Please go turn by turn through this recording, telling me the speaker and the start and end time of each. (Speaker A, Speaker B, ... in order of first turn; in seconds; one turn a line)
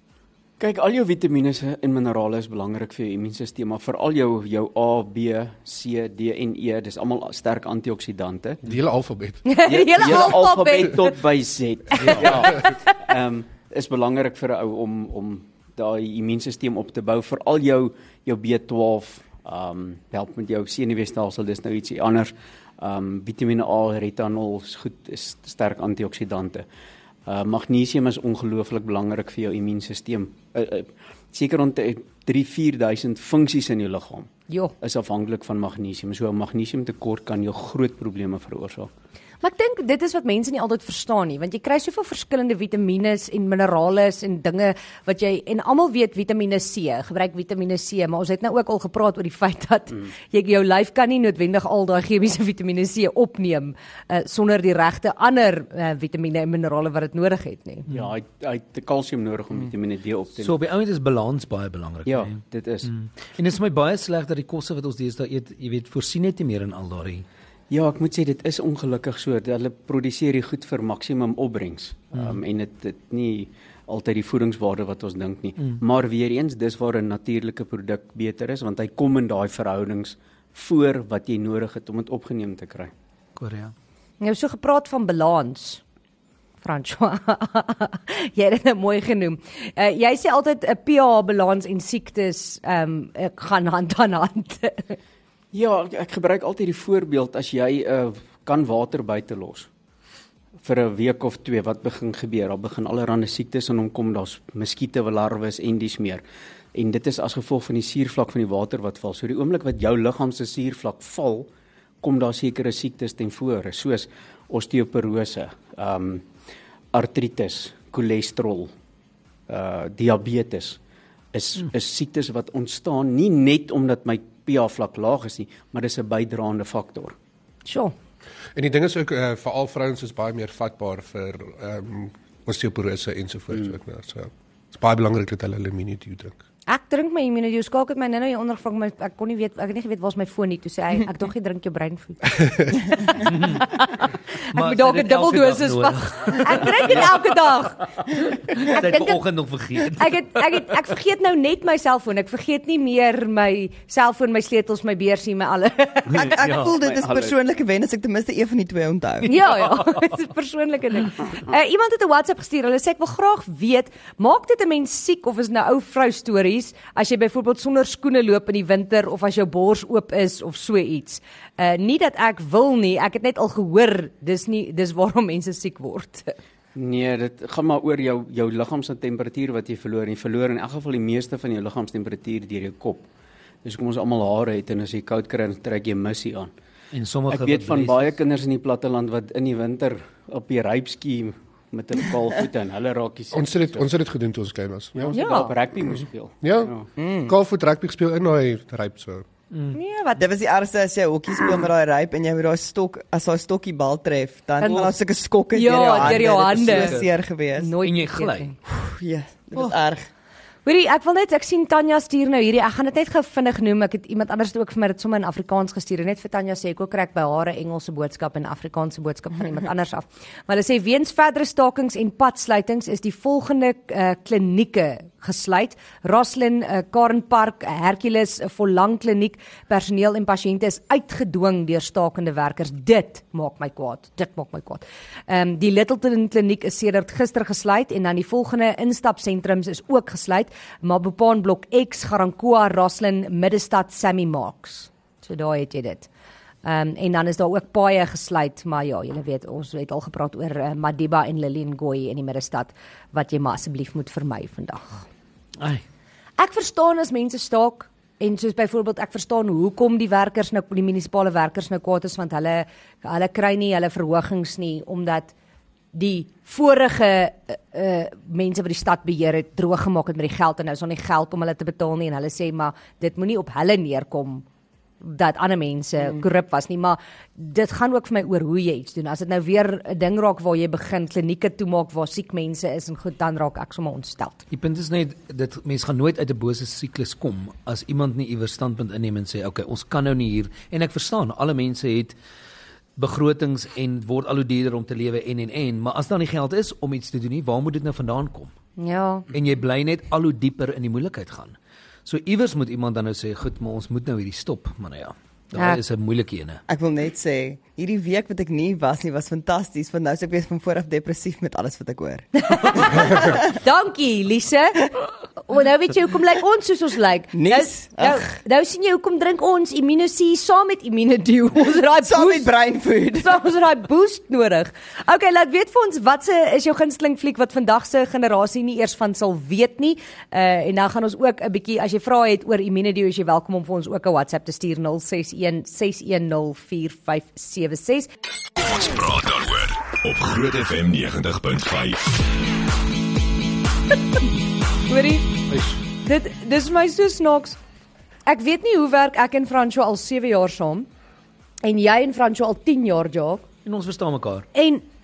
Speaker A: 0.6-8.6
Speaker B: 8.6-9.5
Speaker C: 9.4-11.2
Speaker A: 9.6-26.6
Speaker C: 11.9-12.9
Speaker A: 27.2-34.3
Speaker A: 34.8-38.9
Speaker C: 39.4-57.9
Speaker A: 57.9-60.5
Speaker D: 60.4-67.2
Speaker A: 62.0-62.9
Speaker A: 67.7-82.9
Speaker D: 83.4-83.7
Speaker C: 84.2-85.8
Speaker C: 86.6-95.0
Speaker A: 95.5-99.7
Speaker A: 100.6-106.2
Speaker A: 106.7-111.5
Speaker A: 112.0-116.3
Speaker A: 116.9-118.7
Speaker A: 119.5-120.8
Speaker A: 121.3-127.2
Speaker C: 127.7-127.9
Speaker B: 128.6-136.3
Speaker C: 136.7-147.9
Speaker D: 143.2-143.8
Speaker D: 144.5-147.3
Speaker D: 148.0-150.7
Speaker C: 148.5-149.2
Speaker C: 150.0-156.3
Speaker E: 156.1-159.4
Speaker D: 156.2-156.7
Speaker A: 156.5-157.3
Speaker C: 159.2-176.3
Speaker A: 176.7-183.1
Speaker A: 183.6-186.5
Speaker D: 186.9-188.1
Speaker A: 187.3-193.9
Speaker B: 193.3-195.2
Speaker A: 194.9-196.9
Speaker C: 195.1-195.5
Speaker B: 196.4-196.7
Speaker E: 197.0-197.3
Speaker B: 197.3-199.2
Speaker C: 199.7-200.2
Speaker E: 200.2-207.7
Speaker C: 204.6-204.9
Speaker C: 205.5-207.0
Speaker D: 205.8-207.1
Speaker C: 207.6-208.5
Speaker D: 207.8-208.5
Speaker E: 208.7-210.1
Speaker C: 210.6-246.1
Speaker C: 246.6-255.0
Speaker C: 256.4-265.3
Speaker C: 265.9-274.4
Speaker C: 275.0-284.4
Speaker D: 284.5-292.1
Speaker D: 293.0-298.5
Speaker C: 298.8-299.3
Speaker D: 299.3-306.6
Speaker C: 305.5-305.8
Speaker E: 306.7-313.4
Speaker C: 312.4-322.5
Speaker E: 317.3-318.3
Speaker E: 322.0-323.4
Speaker C: 323.1-338.1
Speaker F: 338.6-342.4
Speaker C: 344.9-345.4
Speaker C: 346.0-347.6
Speaker C: 348.2-350.9
Speaker C: 351.6-353.4
Speaker D: 353.6-354.4
Speaker C: 354.5-354.8